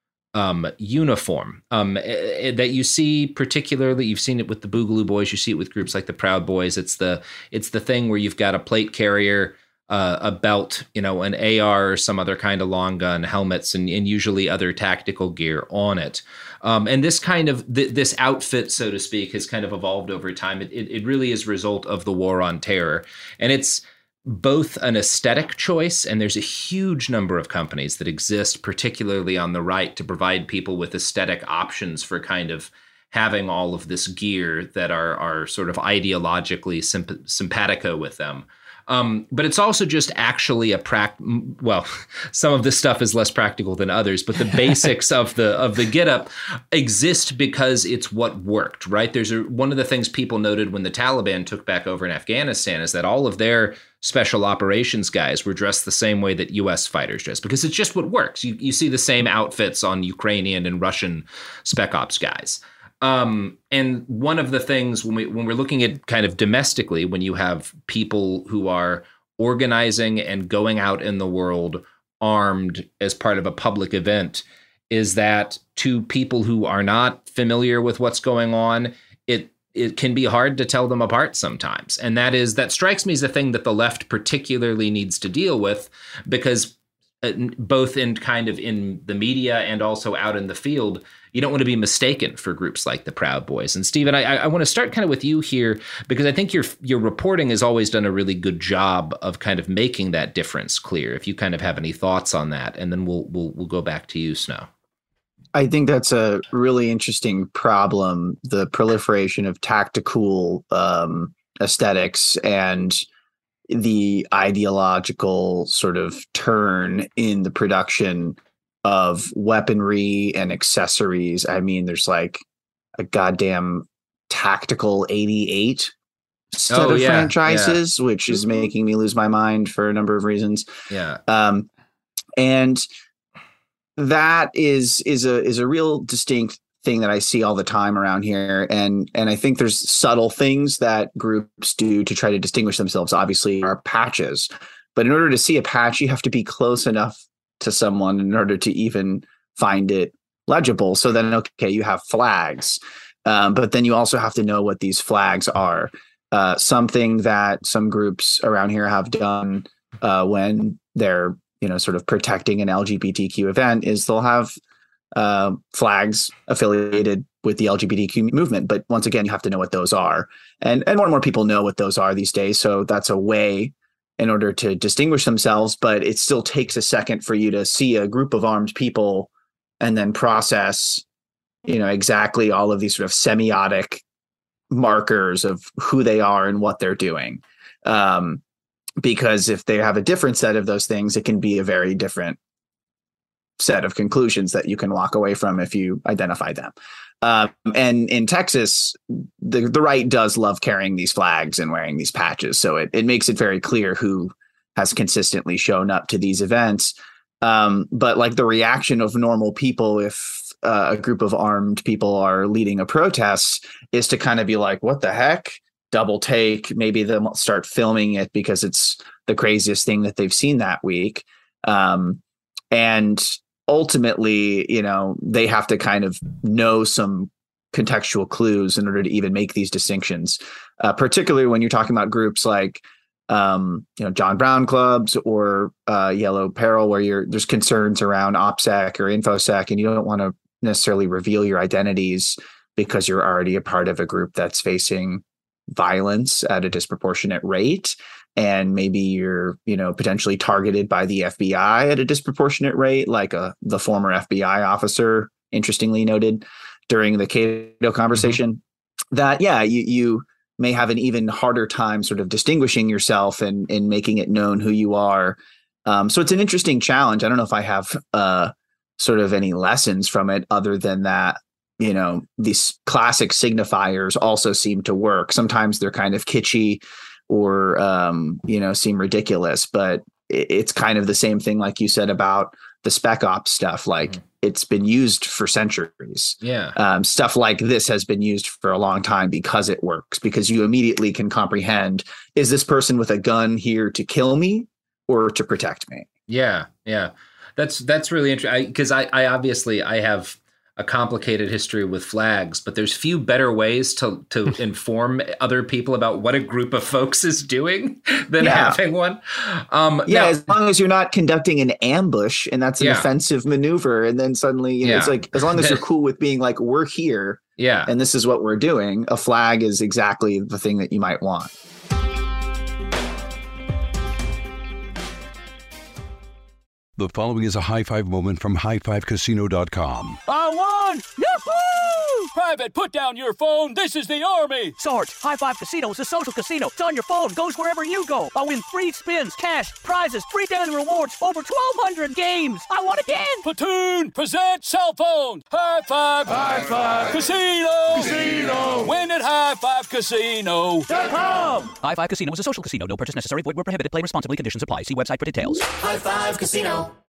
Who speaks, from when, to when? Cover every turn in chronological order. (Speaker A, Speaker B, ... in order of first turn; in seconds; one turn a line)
Speaker A: 0.3-104.7
Speaker B: 105.5-113.0
Speaker B: 113.7-122.4
Speaker B: 123.0-125.9
Speaker B: 126.5-130.7
Speaker A: 126.7-127.8
Speaker A: 130.9-131.2
Speaker B: 131.3-131.7
Speaker B: 132.4-132.8
Speaker B: 134.0-164.5
Speaker B: 165.1-181.0
Speaker B: 181.7-184.0
Speaker B: 184.7-188.4
Speaker B: 189.0-192.4
Speaker B: 193.6-222.2
Speaker B: 222.7-258.6
Speaker A: 258.1-258.4
Speaker B: 259.1-296.1
Speaker A: 286.4-286.8
Speaker A: 296.3-310.6
Speaker B: 308.4-308.8
Speaker B: 310.1-321.5
Speaker A: 312.8-313.1
Speaker A: 314.8-315.8
Speaker A: 317.6-317.9
Speaker C: 327.0-330.2
Speaker D: 330.3-334.8
Speaker E: 331.1-332.3
Speaker E: 334.8-343.4
Speaker D: 343.4-350.9
Speaker E: 351.3-351.6
Speaker F: 351.8-356.8